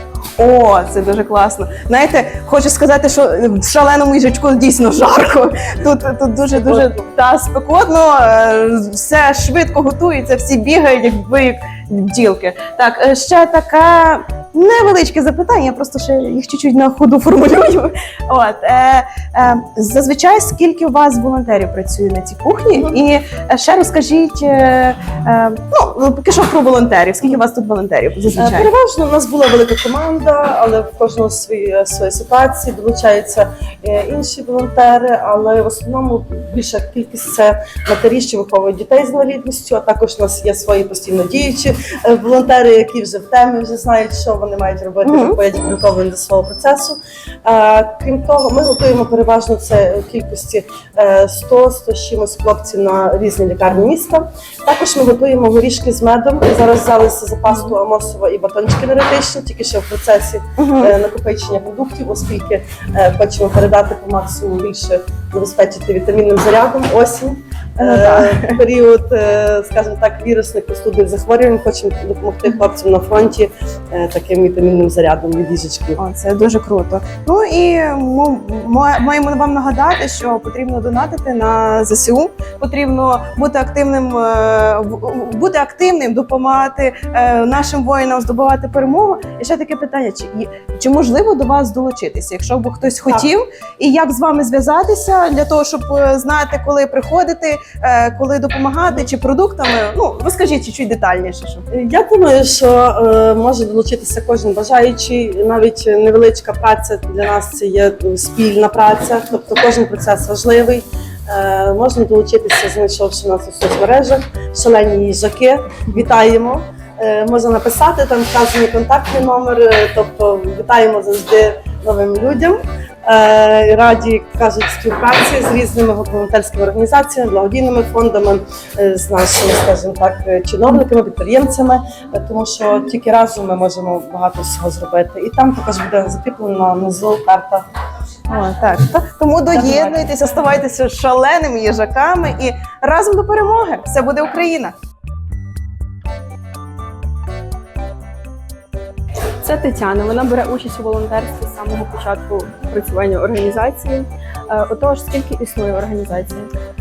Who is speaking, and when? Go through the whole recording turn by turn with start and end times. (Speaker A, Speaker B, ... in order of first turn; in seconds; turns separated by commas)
Speaker A: 0.4-28.7, Speaker B: 6.5-6.9, Speaker B: 28.4-76.0, Speaker A: 67.8-68.6, Speaker A: 76.0-101.7, Speaker B: 101.7-137.6, Speaker A: 138.3-144.7, Speaker B: 139.5-140.1, Speaker C: 149.4-156.5